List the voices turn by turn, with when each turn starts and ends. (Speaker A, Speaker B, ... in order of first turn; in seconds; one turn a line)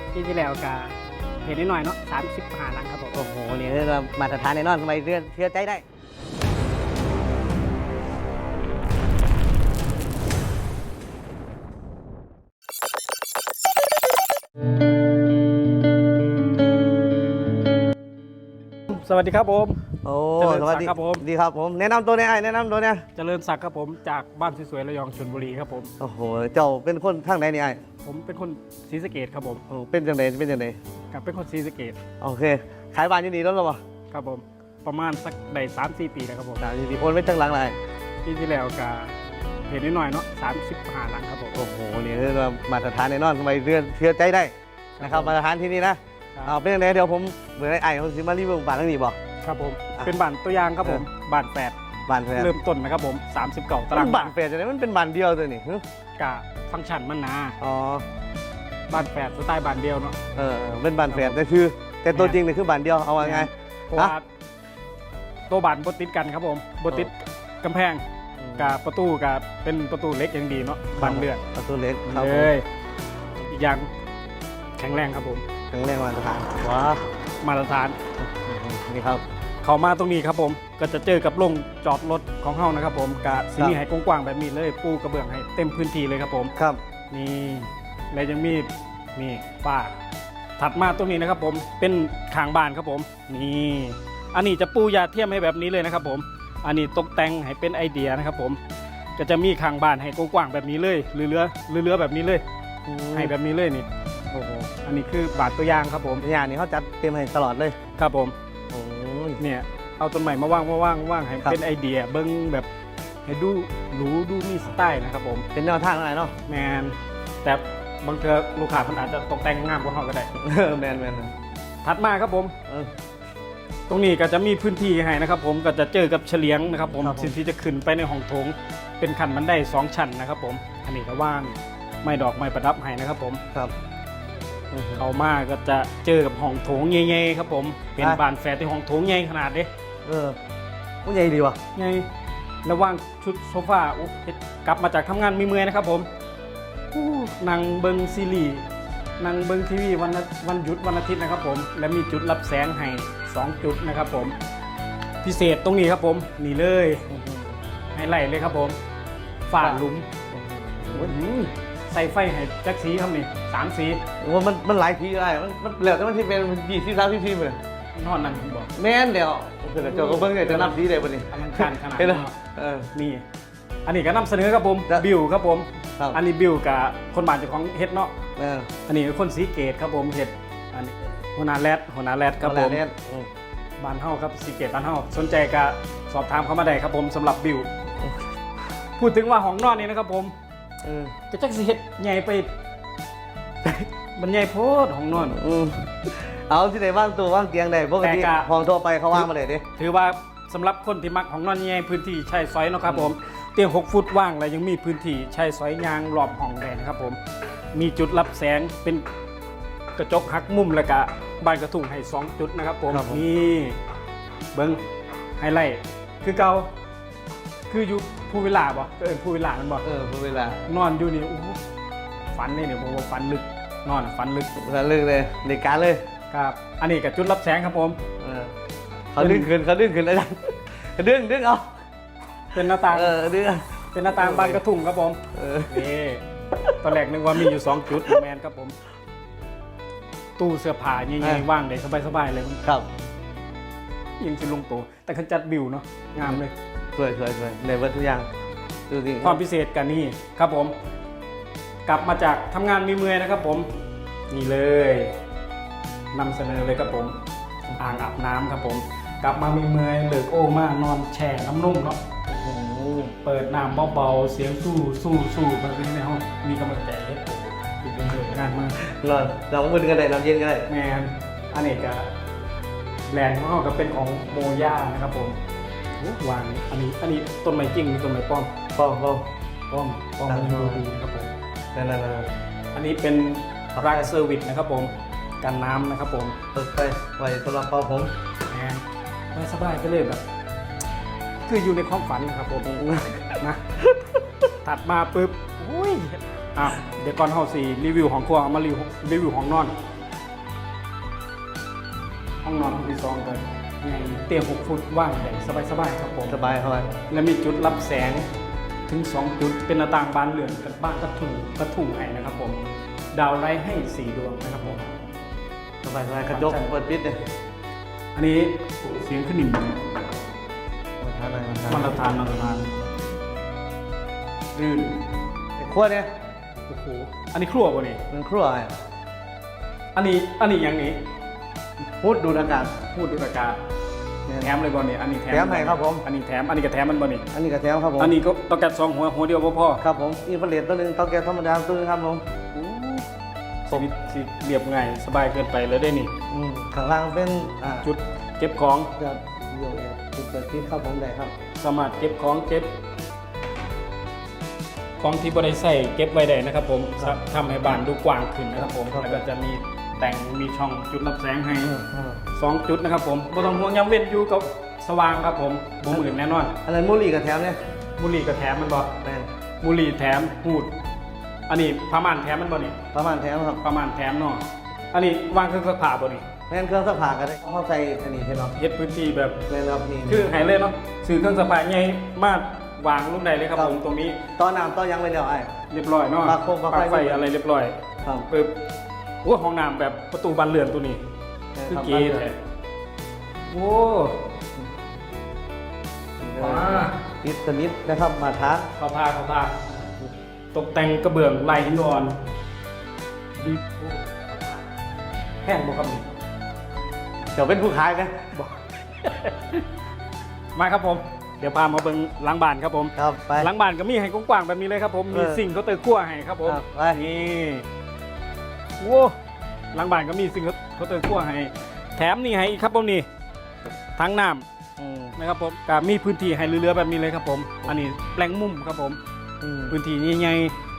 Speaker A: 0.1-3.1
Speaker B: 3.1-5.8
Speaker A: 18.9-19.8
Speaker B: 20.0-23.0
Speaker A: 20.4-21.2
Speaker A: 23.1-25.9
Speaker B: 26.0-27.8
Speaker A: 28.0-29.6
Speaker B: 29.7-30.8
Speaker A: 31.1-32.0
Speaker B: 32.2-33.8
Speaker A: 34.1-36.6
Speaker B: 36.6-37.8
Speaker A: 38.2-39.1
Speaker A: 39.7-41.6
Speaker B: 41.5-49.2
Speaker A: 45.0-45.4
Speaker A: 49.4-51.7
Speaker B: 52.1-52.5
Speaker A: 52.3-54.3
Speaker B: 53.9-55.8
Speaker A: 56.2-57.6
Speaker B: 57.6-58.0
Speaker A: 58.9-60.2
Speaker B: 60.3-64.1
Speaker A: 61.1-61.4
Speaker A: 62.1-62.4
Speaker A: 63.2-64.2
Speaker A: 65.5-68.0
Speaker B: 68.4-68.8
Speaker A: 68.6-71.4
Speaker B: 71.0-72.5
Speaker A: 72.1-72.6
Speaker A: 73.5-73.9
Speaker A: 74.8-75.4
Speaker B: 75.7-77.0
Speaker A: 77.4-78.0
Speaker B: 78.2-79.2
Speaker A: 79.6-86.5
Speaker B: 86.5-86.8
Speaker A: 87.1-89.9
Speaker A: 90.6-98.6
Speaker A: 99.2-102.4
Speaker B: 102.8-103.3
Speaker A: 103.1-103.9
Speaker B: 104.3-104.7
Speaker A: 104.8-106.2
Speaker B: 106.2-107.8
Speaker A: 108.0-108.3
Speaker B: 108.7-109.4
Speaker A: 109.4-112.7
Speaker A: 113.2-115.5
Speaker B: 115.5-116.3
Speaker A: 116.5-120.3
Speaker B: 120.4-121.3
Speaker A: 121.8-122.5
Speaker A: 123.9-133.4
Speaker B: 127.0-127.3
Speaker B: 134.7-135.0
Speaker A: 134.9-139.7
Speaker B: 140.0-140.4
Speaker B: 141.0-141.6
Speaker A: 141.7-142.1
Speaker A: 142.6-146.1
Speaker A: 146.9-148.7
Speaker A: 149.2-154.3
Speaker A: 155.2-157.0
Speaker B: 157.1-157.6
Speaker A: 157.9-158.8
Speaker A: 159.5-160.1
Speaker B: 159.6-161.1
Speaker A: 160.9-164.0
Speaker B: 164.2-167.6
Speaker A: 167.9-168.7
Speaker B: 168.8-172.9
Speaker A: 169.8-172.3
Speaker A: 172.9-173.2
Speaker A: 173.8-178.1
Speaker B: 178.4-178.7
Speaker A: 178.9-182.8
Speaker B: 182.4-183.3
Speaker A: 183.8-187.7
Speaker A: 189.0-190.3
Speaker B: 190.8-191.1
Speaker A: 191.3-192.5
Speaker A: 194.2-195.4
Speaker B: 195.2-199.6
Speaker A: 198.0-198.5
Speaker A: 199.1-207.2
Speaker B: 202.9-203.1
Speaker A: 207.7-209.0
Speaker A: 209.9-213.8
Speaker B: 212.9-213.2
Speaker A: 214.5-214.8
Speaker A: 215.4-216.7
Speaker A: 217.7-219.8
Speaker B: 219.8-220.6
Speaker A: 220.7-221.6
Speaker A: 222.3-224.5
Speaker B: 224.6-226.0
Speaker A: 226.3-228.0
Speaker B: 228.2-228.5
Speaker B: 229.1-231.8
Speaker A: 229.2-229.5
Speaker A: 232.5-233.2
Speaker B: 232.8-234.6
Speaker A: 233.9-236.2
Speaker B: 235.3-235.8
Speaker A: 236.8-238.8
Speaker A: 240.4-242.6
Speaker B: 241.2-241.4
Speaker A: 244.2-246.5
Speaker B: 246.9-248.3
Speaker B: 248.9-249.4
Speaker A: 249.2-250.7
Speaker A: 251.8-253.7
Speaker A: 254.3-255.2
Speaker A: 256.1-257.1
Speaker A: 257.8-262.0
Speaker B: 262.3-263.1
Speaker A: 263.2-268.8
Speaker B: 268.8-270.7
Speaker A: 270.7-272.1
Speaker A: 273.1-275.4
Speaker A: 276.0-278.5
Speaker B: 278.7-279.3
Speaker A: 279.7-281.3
Speaker B: 280.3-280.8
Speaker B: 281.7-282.3
Speaker A: 282.7-284.9
Speaker B: 283.7-284.1
Speaker A: 285.4-286.4
Speaker B: 286.5-288.1
Speaker A: 288.5-288.8
Speaker A: 289.3-290.2
Speaker A: 291.4-292.8
Speaker B: 292.6-293.4
Speaker A: 294.6-299.7
Speaker A: 302.4-306.4
Speaker B: 306.3-306.9
Speaker A: 307.1-308.2
Speaker A: 308.9-314.9
Speaker B: 315.8-317.2
Speaker A: 316.3-316.6
Speaker A: 318.1-319.8
Speaker B: 321.0-322.0
Speaker A: 321.7-322.7
Speaker A: 324.5-325.0
Speaker B: 325.6-326.1
Speaker A: 326.7-328.0
Speaker B: 328.1-328.7
Speaker A: 329.9-331.0
Speaker B: 332.0-332.8
Speaker A: 332.9-333.6
Speaker A: 334.4-337.3
Speaker B: 335.3-336.0
Speaker B: 337.3-338.1
Speaker A: 338.0-339.8
Speaker B: 339.8-342.4
Speaker A: 342.5-343.0
Speaker A: 343.7-346.1
Speaker B: 346.3-347.9
Speaker A: 347.8-348.9
Speaker B: 349.0-351.3
Speaker A: 351.6-352.7
Speaker A: 355.0-361.7
Speaker B: 358.8-359.2
Speaker B: 361.6-362.2
Speaker A: 362.3-366.6
Speaker B: 366.6-367.6
Speaker A: 368.0-368.9
Speaker B: 369.0-369.3
Speaker A: 369.6-370.7
Speaker A: 371.5-372.8
Speaker B: 372.9-373.6
Speaker A: 373.6-376.2
Speaker B: 376.5-378.6
Speaker A: 378.6-379.4
Speaker B: 379.5-380.3
Speaker A: 380.1-384.2
Speaker B: 384.4-385.5
Speaker A: 385.7-387.8
Speaker B: 386.2-387.3
Speaker A: 388.3-388.5
Speaker A: 389.2-391.0
Speaker B: 391.5-392.3
Speaker A: 391.7-392.4
Speaker A: 393.5-394.2
Speaker B: 396.2-398.7
Speaker A: 396.4-396.9
Speaker A: 398.8-399.6
Speaker A: 400.5-402.2
Speaker A: 403.4-404.2
Speaker A: 405.4-406.1
Speaker B: 407.3-408.2
Speaker A: 408.3-409.7
Speaker A: 410.5-417.6
Speaker B: 413.0-413.5
Speaker B: 415.1-415.4
Speaker B: 416.4-417.0
Speaker A: 418.8-419.1
Speaker A: 419.7-423.1
Speaker A: 424.0-424.4
Speaker B: 424.8-425.1
Speaker A: 425.2-429.0
Speaker B: 429.4-429.8
Speaker A: 429.7-430.5